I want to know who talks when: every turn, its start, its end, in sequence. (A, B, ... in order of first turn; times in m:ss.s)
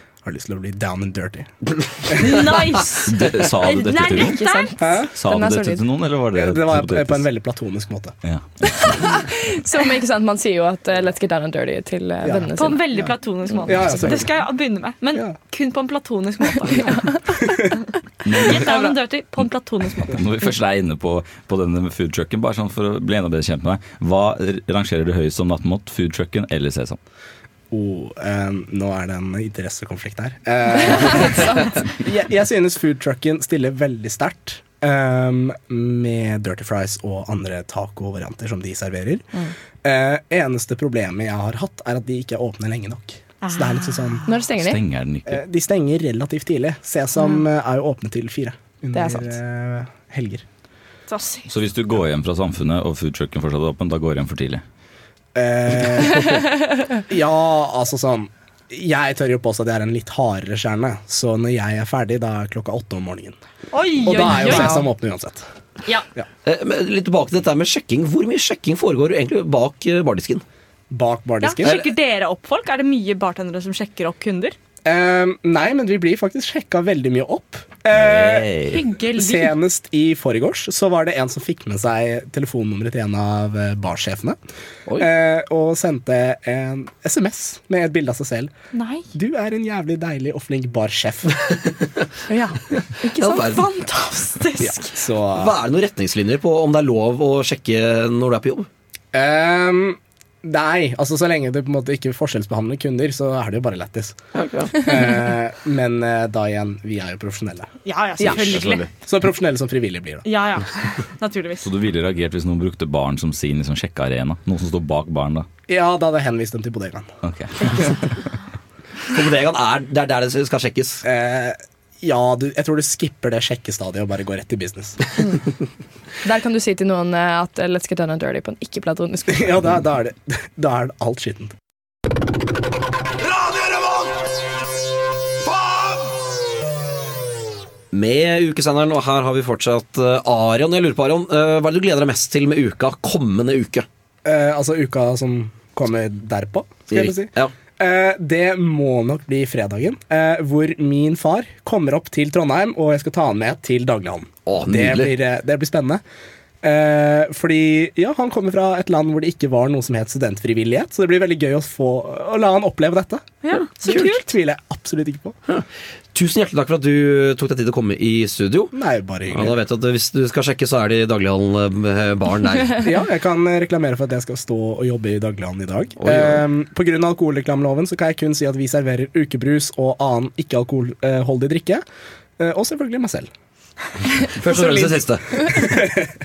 0:00.2-0:01.5 A
0:02.1-0:04.7 B
0:03.0-0:04.5 C
0:04.3-0:05.8 D
0:04.8-0:05.1 A
0:05.2-0:07.3 C
0:06.3-0:08.2 A
0:08.2-0:09.1 C
0:08.9-0:12.8 D
0:12.2-0:12.5 A
0:12.6-0:17.5 B
0:13.5-0:14.2 D
0:13.6-0:14.4 A
0:16.8-0:17.0 D
0:18.2-0:18.7 C
0:18.4-0:20.2 B
0:18.6-0:18.9 D
0:20.1-0:27.0 C
0:27.7-0:39.3 A
0:30.7-0:31.7 D
0:39.8-0:44.2 A
0:43.4-0:44.2 B
0:44.2-0:44.8 D
0:44.5-0:45.4 C
0:45.3-0:50.4 A
0:48.9-0:49.4 D
0:51.1-0:51.5 B
0:51.5-0:54.6 C
0:55.3-0:56.4 A
0:57.1-1:03.4 A
1:03.7-1:04.8 B
1:04.0-1:05.4 A
1:06.4-1:10.4 E
1:10.9-1:11.8 A
1:11.4-1:14.5 B
1:14.8-1:18.5 A
1:17.9-1:18.8 C
1:18.7-1:19.5 B
1:19.0-1:24.4 A
1:25.0-1:28.5 A
1:28.7-1:29.1 B
1:29.1-1:31.4 A
1:32.3-1:33.5 D
1:33.2-1:33.6 E
1:33.2-1:35.0 B
1:34.6-1:35.5 A
1:35.4-1:38.7 E
1:39.1-1:44.2 A
1:44.3-1:44.7 E
1:44.8-1:47.7 A
1:47.8-1:48.9 B
1:48.2-1:48.5 D
1:48.2-1:50.2 A
1:50.2-1:51.6 B
1:51.6-1:55.5 C
1:55.7-1:57.1 A
1:57.2-1:58.0 C
1:59.1-2:01.0 E
2:01.0-2:05.1 A
2:06.2-2:09.7 D
2:09.3-2:11.5 A
2:13.4-2:13.8 E
2:15.5-2:15.8 E
2:17.9-2:23.8 E
2:24.2-2:36.0 A
2:26.9-2:27.5 E
2:34.5-2:35.1 E
2:36.6-2:45.4 A
2:43.4-2:44.3 B
2:45.5-2:48.7 E
2:48.7-2:49.6 A
2:49.3-2:52.8 E
2:52.8-3:01.8 A
2:56.0-2:56.4 E
3:02.4-3:03.3 A
3:04.1-3:05.7 D
3:04.4-3:05.3 E
3:05.6-3:06.0 A